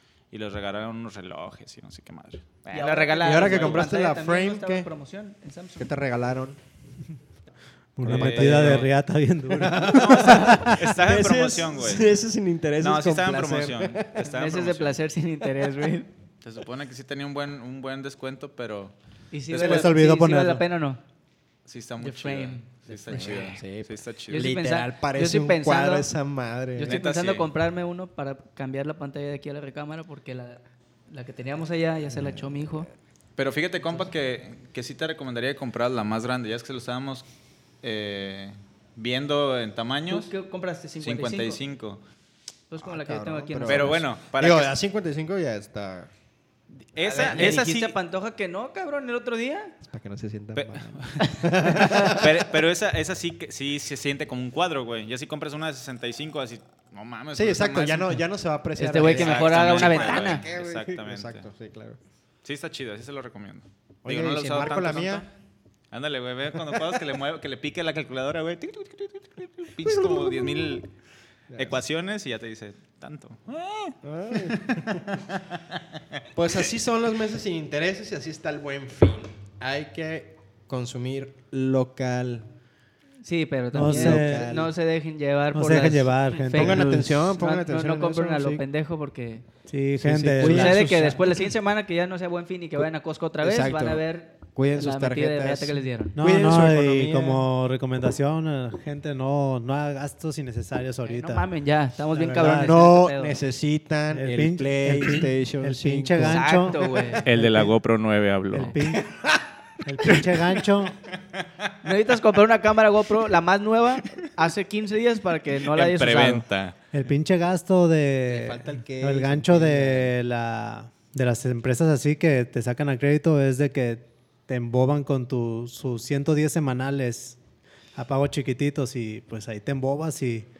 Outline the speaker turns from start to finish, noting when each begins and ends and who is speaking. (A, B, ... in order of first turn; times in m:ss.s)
0:00.3-0:03.9 A
0:02.7-0:05.9 B
0:03.2-0:04.9 C
0:05.8-0:06.6 C
0:08.0-0:10.9 D
0:08.0-0:08.9 A
0:08.0-0:08.9 C
0:09.5-0:14.2 C
0:09.8-0:12.1 A
0:12.8-0:15.0 A
0:14.2-0:16.1 B
0:16.4-0:18.9 A
0:19.3-0:21.0 B
0:19.5-0:19.8 A
0:19.5-0:20.6 D
0:21.6-0:24.5 A
0:22.0-0:23.2 B
0:22.9-0:27.0 C
0:24.3-0:26.1 B
0:26.7-0:32.9 B
0:26.8-0:27.5 A
0:32.1-0:32.6 C
0:33.4-0:37.2 A
0:37.8-0:40.3 A
0:40.1-0:41.6 B
0:41.0-0:42.0 A
0:42.7-0:44.1 B
0:42.8-0:46.1 C
0:43.6-0:44.7 A
0:46.9-0:47.9 A
0:47.0-0:49.8 B
0:49.8-0:52.4 C
0:50.6-0:58.2 A
0:51.2-0:52.2 B
0:57.3-1:02.0 C
0:58.8-1:00.4 B
0:58.9-1:01.5 A
1:02.4-1:05.3 A
1:04.0-1:05.2 C
1:04.6-1:05.1 B
1:05.9-1:10.9 A
1:09.8-1:10.7 C
1:11.5-1:11.8 C
1:11.6-1:15.8 A
1:14.0-1:15.2 C
1:16.3-1:22.5 C
1:23.2-1:29.4 B
1:23.7-1:24.5 D
1:23.9-1:24.7 C
1:25.5-1:27.1 D
1:26.5-1:28.6 C
1:29.7-1:31.2 D
1:30.0-1:31.2 C
1:30.4-1:36.2 B
1:33.4-1:37.4 C
1:36.2-1:41.4 D
1:41.0-1:43.4 B
1:42.1-1:42.8 D
1:42.4-1:46.8 C
1:44.1-1:47.7 D
1:46.3-1:47.2 B
1:47.2-1:48.8 A
1:48.5-1:49.2 D
1:49.0-1:49.4 C
1:49.8-1:51.0 D
1:50.0-1:50.3 C
1:51.4-1:51.7 A
1:51.8-1:56.4 B
1:55.7-1:56.7 A
1:56.9-2:07.4 D
1:58.3-2:00.1 C
2:08.0-2:10.5 D